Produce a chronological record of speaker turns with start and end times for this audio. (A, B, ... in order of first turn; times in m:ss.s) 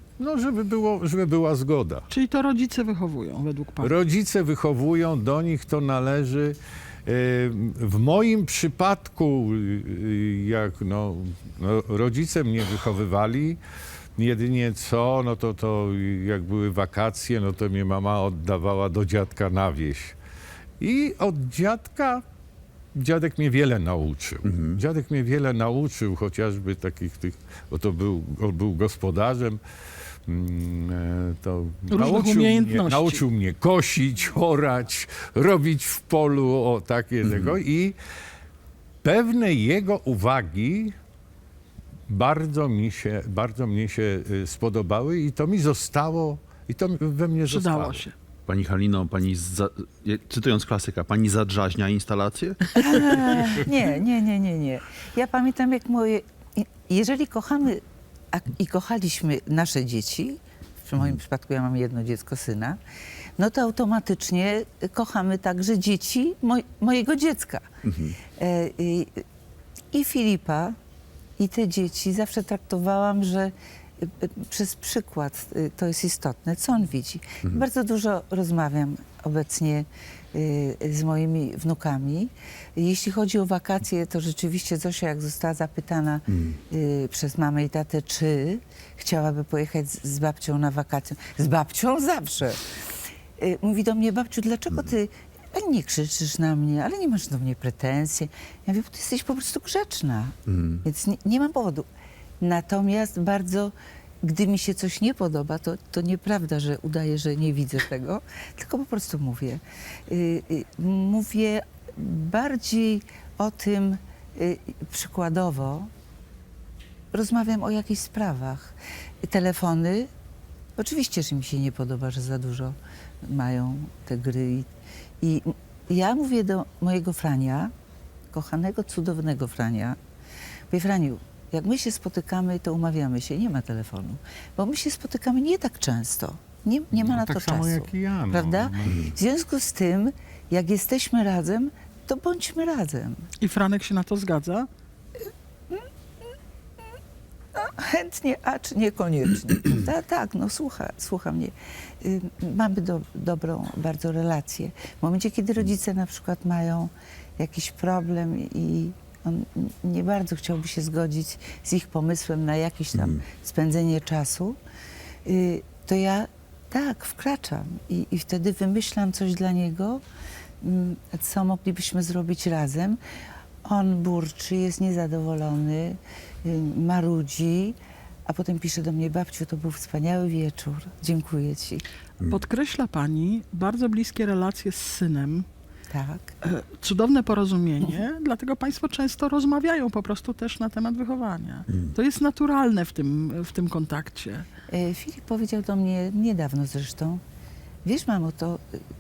0:00.2-0:02.1 A
0:02.1-0:03.9 B
0:03.8-0:13.6 A
0:14.2-0:20.2 A
0:20.8-0:22.2 A
0:22.9-0:29.6 A
0:24.4-0:24.8 C
0:30.3-0:38.0 A
0:31.9-0:33.2 B
0:37.2-0:37.6 C
0:39.0-0:40.9 A
0:42.1-0:48.1 A
0:47.5-0:48.2 B
0:48.5-0:52.8 C
0:52.8-0:57.8 D
0:58.3-1:02.8 D
1:03.4-1:07.7 D
1:07.8-1:08.2 C
1:08.4-1:09.2 D
1:09.9-1:10.8 D
1:11.4-1:32.6 D
1:26.3-1:26.6 C
1:33.4-1:41.9 D
1:40.5-1:40.8 C
1:42.4-1:55.9 D
1:57.1-2:00.1 D
2:00.8-2:04.7 D
2:05.2-2:07.7 D
2:08.3-2:10.0 D
2:10.7-2:23.2 D
2:16.9-2:19.1 A
2:23.4-2:24.7 B
2:27.6-2:44.6 D
2:43.0-2:43.2 C
2:45.3-2:50.0 D
2:50.6-2:53.0 D
2:53.6-2:57.8 D
2:58.3-3:01.8 D
3:02.3-3:05.5 B
3:05.9-3:06.3 D
3:06.4-3:14.5 B
3:14.7-3:17.2 D
3:17.8-3:18.6 D